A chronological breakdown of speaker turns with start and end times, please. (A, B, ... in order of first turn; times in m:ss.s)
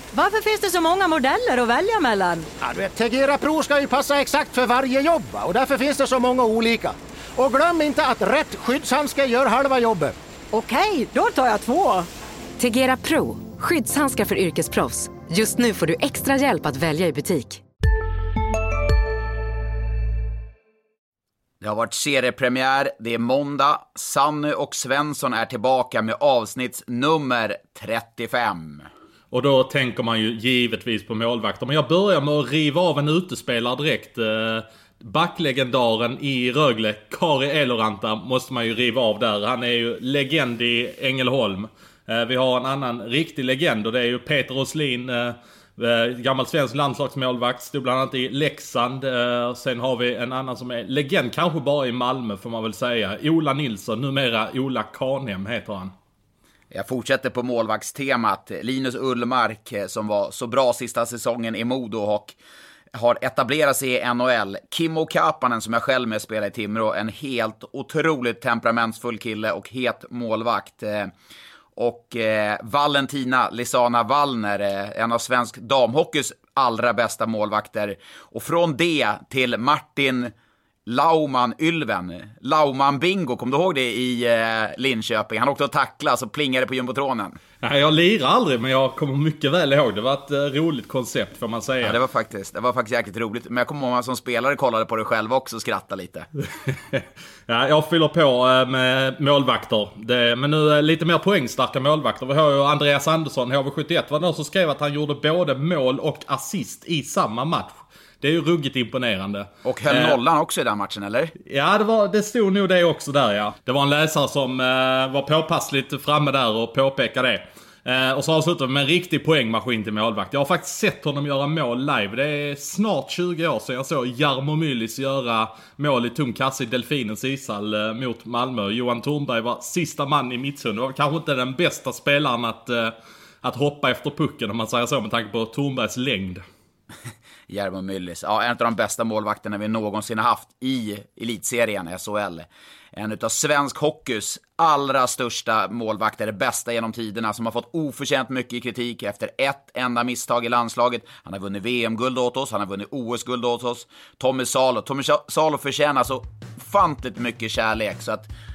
0:00.1-0:02.5 A
0:02.6-0:10.1 B
0:10.5-0:12.1 A
0:12.6-0:17.6 C
0:21.6-0:28.9 D
0:29.3-0:55.9 E
0:56.7-1:02.4 D
1:02.9-1:11.1 D
1:11.8-1:20.3 D
1:20.8-1:27.4 D
1:27.6-1:32.0 E
1:31.8-1:36.3 D
1:36.6-1:50.2 E
1:49.6-1:51.3 D
1:51.4-2:16.4 E
2:17.5-2:38.3 D